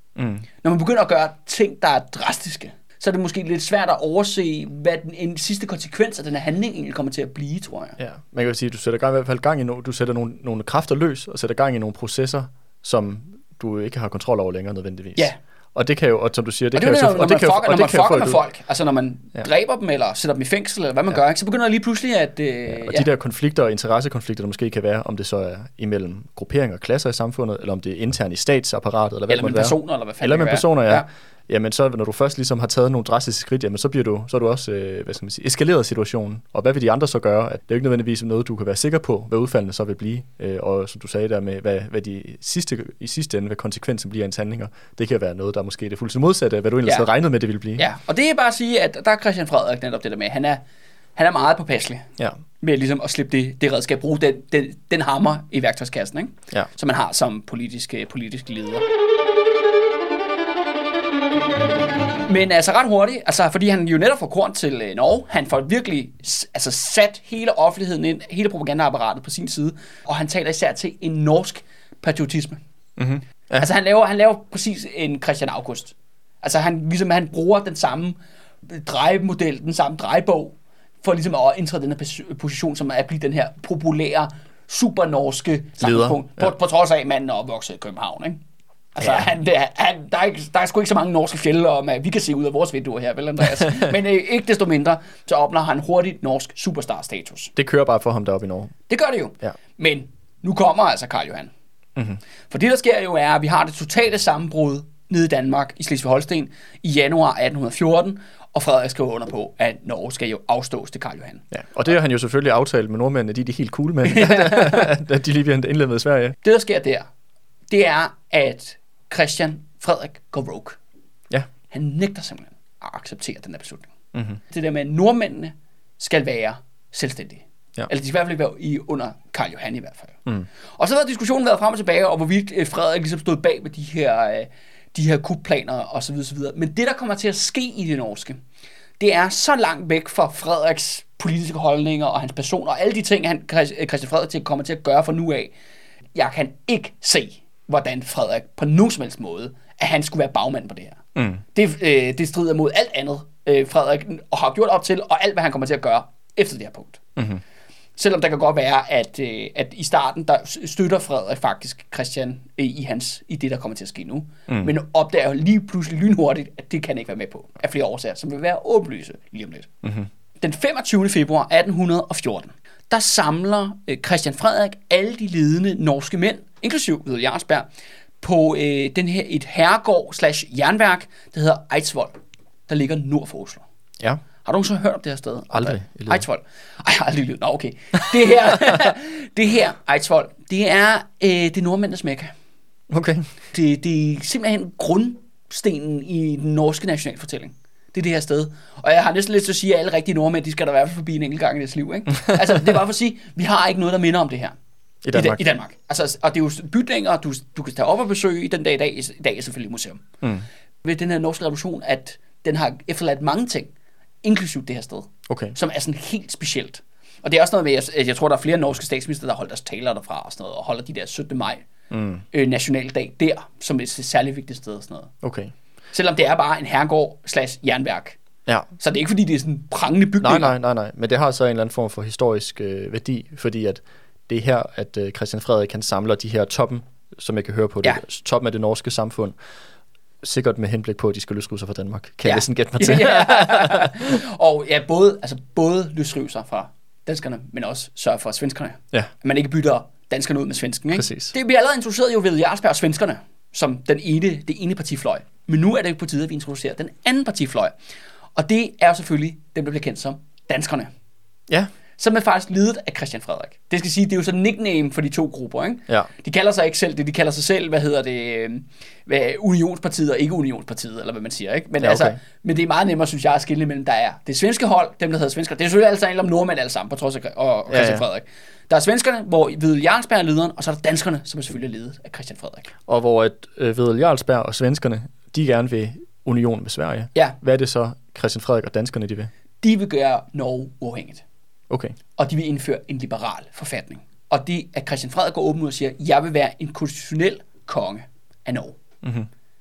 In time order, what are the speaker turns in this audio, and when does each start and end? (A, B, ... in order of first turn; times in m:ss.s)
0:00.2-0:00.4 A
0:00.6-0:08.0 B
0:08.0-0:18.4 A
0:16.7-0:23.1 B
0:22.8-0:47.9 A
0:29.3-0:31.1 B
0:47.8-0:50.6 B
0:51.2-0:52.1 B
0:52.6-0:58.8 B
1:02.3-1:12.6 B
1:13.0-1:13.7 A
1:13.6-1:28.4 B
1:25.8-1:26.5 A
1:28.9-1:37.5 B
1:29.0-1:29.3 A
1:33.6-1:33.9 A
1:37.6-1:38.7 A
1:38.9-1:41.5 B
1:42.5-1:51.5 B
1:51.5-1:56.4 A
1:54.0-1:54.9 B
1:56.4-1:57.1 B
1:57.7-2:00.8 B
2:01.7-2:03.9 B
2:04.1-2:04.4 A
2:04.5-2:10.2 B
2:10.8-2:18.4 B
2:19.0-2:25.5 B
2:26.1-2:31.0 B
2:31.2-2:31.4 A
2:31.5-2:37.0 B
2:38.0-2:49.7 B
2:49.8-2:50.1 A
2:50.4-2:57.7 B
2:58.2-3:02.1 B
3:02.7-3:03.6 B
3:04.4-3:12.3 B
3:05.5-3:06.2 A
3:08.5-3:08.8 A
3:12.9-3:13.2 A
3:13.5-3:24.6 B
3:25.0-3:25.4 A
3:25.1-3:30.1 B
3:30.8-3:33.7 B
3:34.2-3:41.6 B
3:35.3-3:35.6 A
3:41.9-3:42.2 A
3:42.3-3:45.1 B
3:45.2-3:45.5 A
3:45.9-3:48.2 B
3:48.8-3:50.6 B
3:50.2-3:59.4 A
4:00.2-4:04.2 A
4:02.2-4:17.7 B
4:10.9-4:11.3 A
4:18.4-4:20.9 B
4:22.0-4:42.7 B
4:31.8-4:32.2 A
4:37.7-4:38.0 A
4:42.9-4:49.3 A
4:49.6-4:51.2 B
4:51.7-4:52.0 A
4:52.2-4:58.8 B
4:59.0-4:59.3 A